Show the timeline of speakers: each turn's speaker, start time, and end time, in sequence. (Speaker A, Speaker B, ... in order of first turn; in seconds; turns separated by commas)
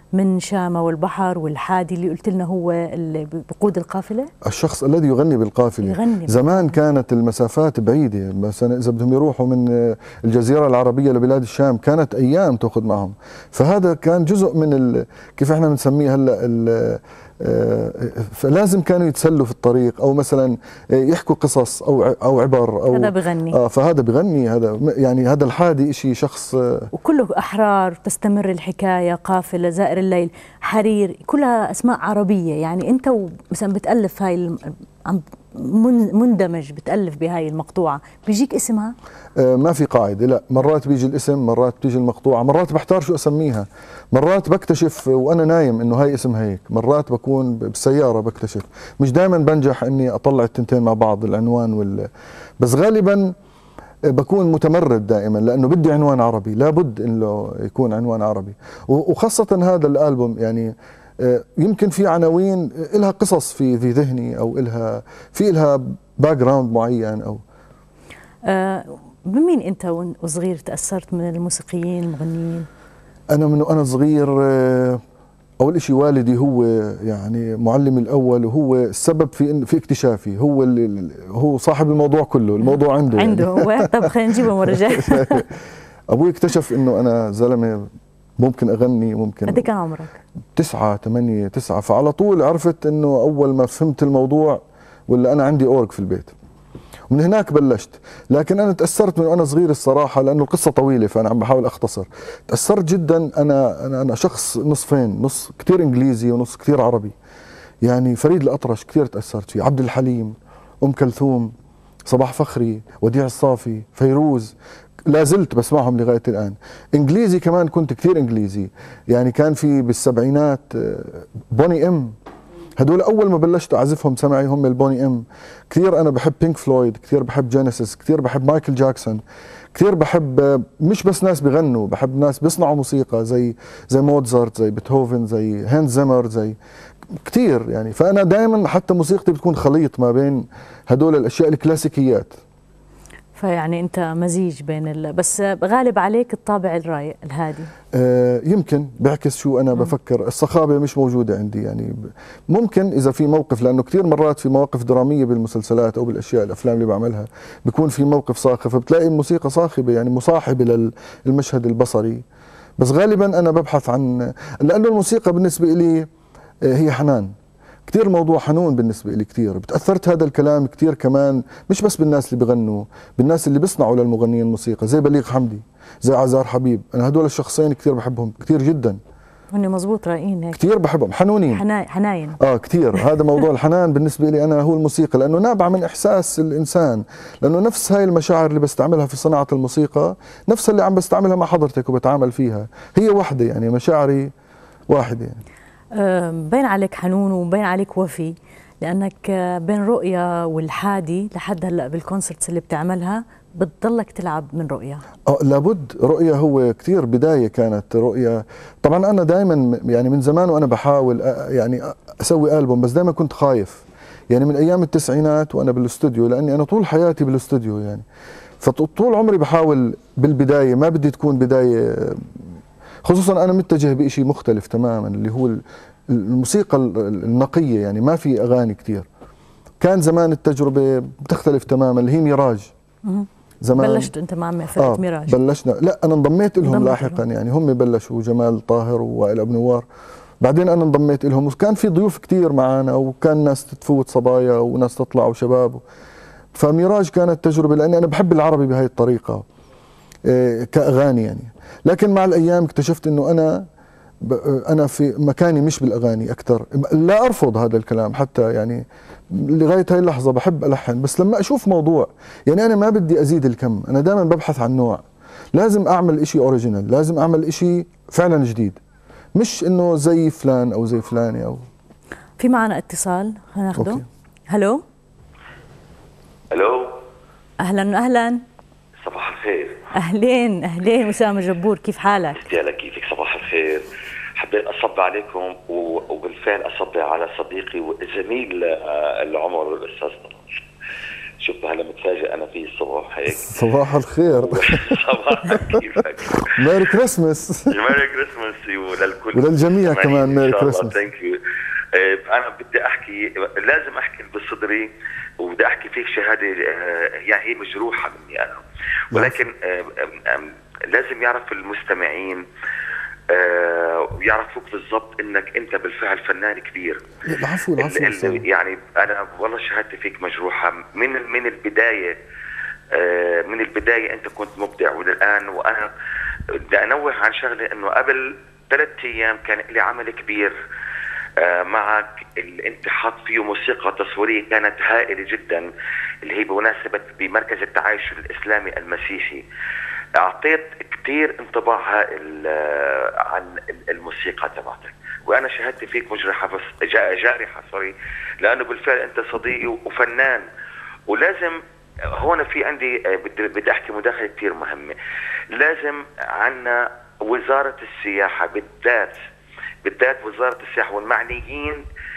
Speaker A: 0.1-4.3, Speaker B: 4.5-26.9, Speaker A: 5.8-6.7, Speaker A: 22.9-23.6, Speaker A: 26.9-38.9, Speaker B: 39.4-52.1, Speaker B: 52.6-53.3, Speaker B: 54.1-67.4, Speaker A: 68.5-72.7, Speaker B: 73.3-75.0, Speaker B: 75.6-85.5, Speaker A: 83.1-85.5, Speaker B: 86.1-89.7, Speaker A: 89.5-90.2, Speaker B: 90.6-96.3, Speaker B: 97.1-107.1, Speaker B: 107.8-111.5, Speaker B: 112.1-114.5, Speaker B: 115.1-122.2, Speaker B: 122.8-129.2, Speaker B: 129.8-136.6, Speaker B: 137.2-142.4, Speaker A: 143.3-147.7, Speaker B: 147.9-162.2, Speaker B: 162.8-166.1, Speaker B: 166.7-167.3, Speaker B: 167.9-179.0, Speaker A: 179.5-180.6, Speaker B: 180.6-181.6, Speaker A: 181.5-182.4, Speaker B: 182.4-194.3, Speaker B: 194.9-195.4, Speaker A: 195.9-205.0, Speaker B: 205.3-218.1, Speaker B: 218.6-222.4, Speaker B: 223.1-229.1, Speaker B: 229.8-232.7, Speaker A: 233.1-235.4, Speaker B: 233.6-234.1, Speaker B: 234.8-239.8, Speaker A: 236.6-237.2, Speaker B: 240.4-245.8, Speaker B: 246.6-249.4, Speaker B: 250.3-253.7, Speaker B: 254.2-268.8, Speaker B: 269.4-271.7, Speaker A: 272.4-274.8, Speaker B: 273.8-274.0, Speaker C: 276.5-277.0, Speaker A: 277.6-278.4, Speaker C: 279.0-279.8, Speaker A: 279.9-282.4, Speaker C: 282.4-290.6, Speaker C: 291.4-293.6, Speaker B: 293.3-297.9, Speaker C: 294.3-296.6, Speaker C: 297.7-301.4, Speaker B: 299.3-301.0, Speaker C: 301.9-312.4, Speaker B: 309.1-309.4, Speaker C: 313.3-317.0, Speaker B: 317.3-318.4, Speaker C: 317.8-322.2, Speaker C: 322.9-325.9, Speaker C: 326.5-330.6, Speaker C: 331.4-335.7, Speaker C: 336.2-339.4, Speaker C: 340.2-350.5, Speaker C: 351.1-351.6, Speaker C: 352.1-354.9, Speaker C: 355.5-359.2, Speaker C: 359.8-361.8